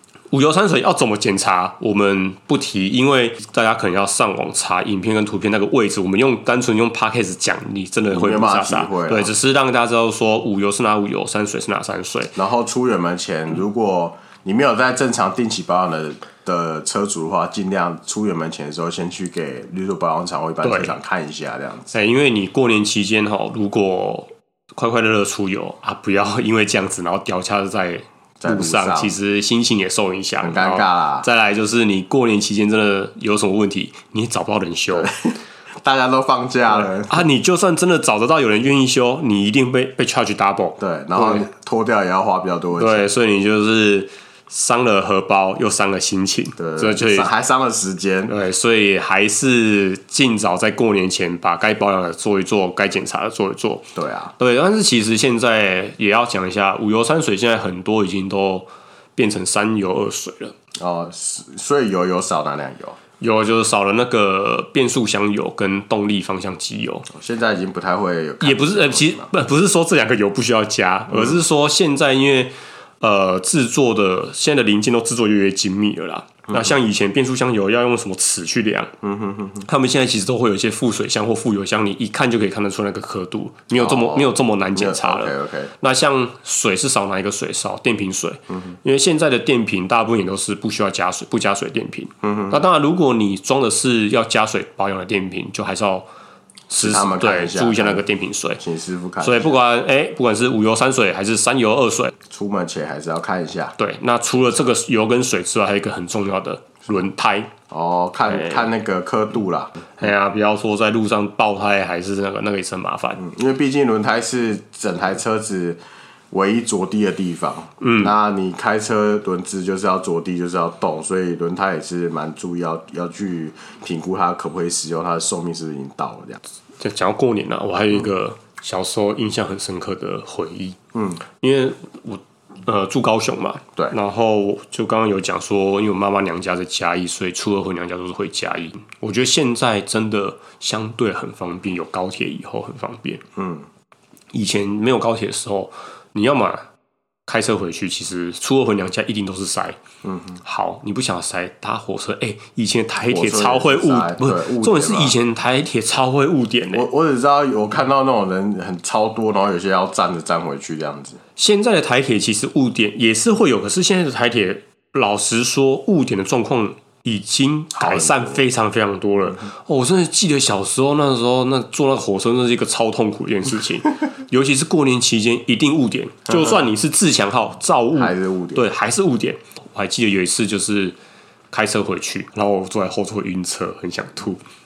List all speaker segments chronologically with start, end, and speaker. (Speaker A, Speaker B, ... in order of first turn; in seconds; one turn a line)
Speaker A: 0.3-12.3
Speaker B: 8.1-9.3
Speaker B: 12.3-21.9
Speaker A: 20.6-20.9
Speaker A: 21.9-35.1
Speaker B: 28.4-29.1
Speaker B: 30.4-31.3
Speaker B: 34.9-37.2
Speaker A: 36.7-41.5
Speaker B: 40.8-43.1
Speaker A: 42.8-47.3
Speaker B: 46.6-48.3
Speaker A: 48.3-60.5
Speaker B: 53.9-54.3
Speaker B: 60.8-63.0
Speaker A: 63.2-67.1
Speaker B: 67.1-69.3
Speaker A: 68.4-78.9
Speaker B: 71.1-71.4
Speaker B: 79.0-79.7
Speaker A: 79.6-96.0
Speaker B: 83.7-85.7
Speaker B: 92.2-92.6
Speaker A: 96.7-98.6
Speaker B: 96.8-98.0
Speaker B: 98.6-99.5
Speaker A: 99.2-102.1
Speaker B: 102.3-103.7
Speaker A: 103.8-107.5
Speaker B: 107.7-109.9
Speaker A: 108.3-108.7
Speaker A: 110.0-113.2
Speaker B: 113.2-115.8
Speaker B: 116.3-126.4
Speaker A: 117.8-118.1
Speaker A: 126.8-130.8
Speaker B: 130.9-131.2
Speaker A: 131.4-143.2
Speaker B: 143.3-143.7
Speaker A: 144.3-146.7
Speaker A: 147.3-149.8
Speaker B: 150.0-150.4
Speaker A: 150.4-156.8
Speaker B: 153.1-155.2
Speaker B: 156.7-161.2
Speaker A: 161.4-180.9
Speaker B: 167.8-168.4
Speaker B: 177.9-178.6
Speaker A: 181.5-184.4